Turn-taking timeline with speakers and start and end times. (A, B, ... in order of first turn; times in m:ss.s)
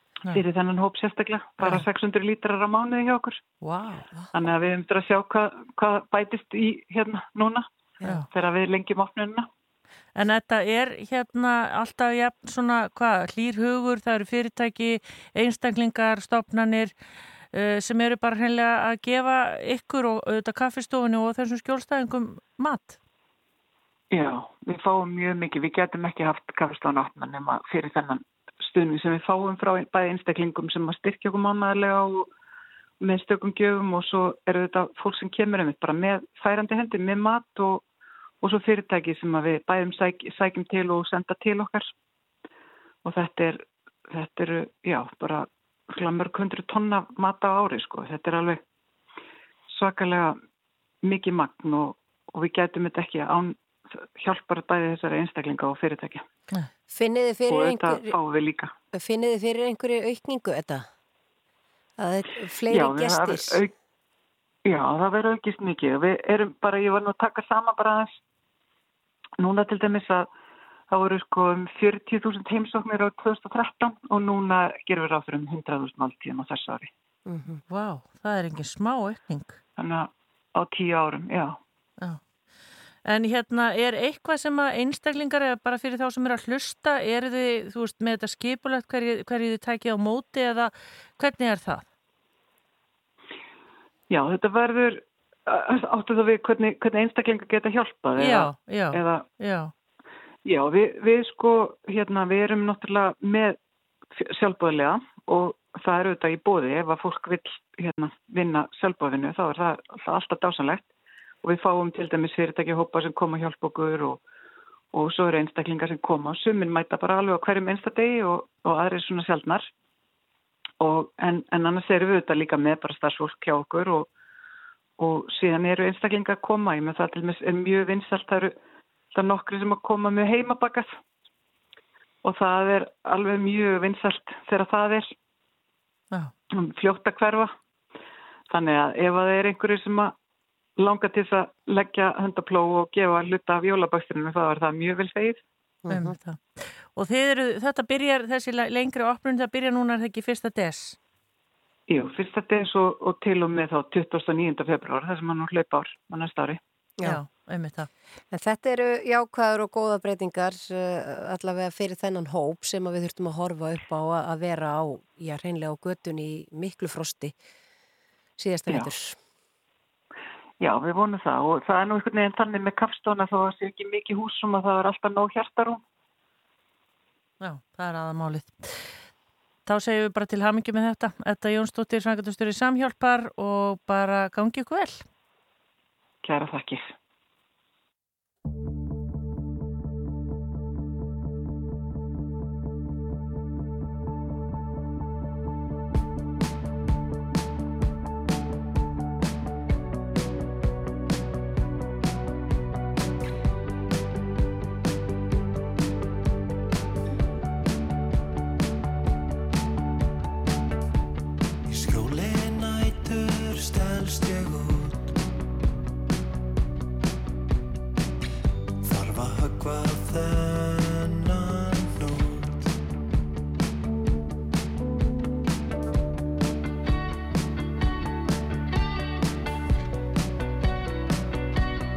0:00.3-0:03.4 A
0:03.6-0:04.1 B
0:04.3-0:07.6 A
0:08.2-0:09.5 A
0:10.2-0:16.9 B
0:17.5-0:23.0 B
0:24.1-0:32.3 A
0:33.0-0:37.8 A
0:38.4-0:41.9 A
0:43.0-0:48.6 A
0:49.7-0:50.4 A
0:51.0-0:56.2 A
0:56.9-0:58.2 C
0:57.5-0:58.7 A
0:58.9-1:00.9 C
1:02.0-1:03.6 C
1:02.7-1:03.7 A
1:04.6-1:08.2 A
1:09.4-1:10.3 A
1:10.9-1:16.9 A
1:17.3-1:17.6 C
1:17.7-1:19.6 B
1:19.8-1:21.6 A
1:23.0-1:31.8 B
1:34.1-1:39.2 A
1:38.2-1:39.7 B
1:40.4-1:43.6 A
1:44.1-1:50.8 A
1:51.4-1:54.2 A
1:54.9-1:59.7 A
2:00.8-2:04.1 A
2:05.0-2:08.5 A
2:09.1-2:10.9 A
2:12.2-2:15.1 A
2:16.5-2:17.5 A
2:18.5-2:20.1 A
2:20.8-2:25.4 A
2:25.8-2:26.1 C
2:25.9-2:31.0 B
2:31.9-2:36.6 A
2:37.0-2:37.9 B
2:38.3-2:47.4 C
2:48.4-2:49.2 C
2:50.6-2:55.8 A
2:57.4-2:58.9 B
2:59.6-3:05.0 B
3:06.2-3:06.9 A
3:31.7-3:35.1 D
3:38.8-3:42.7 D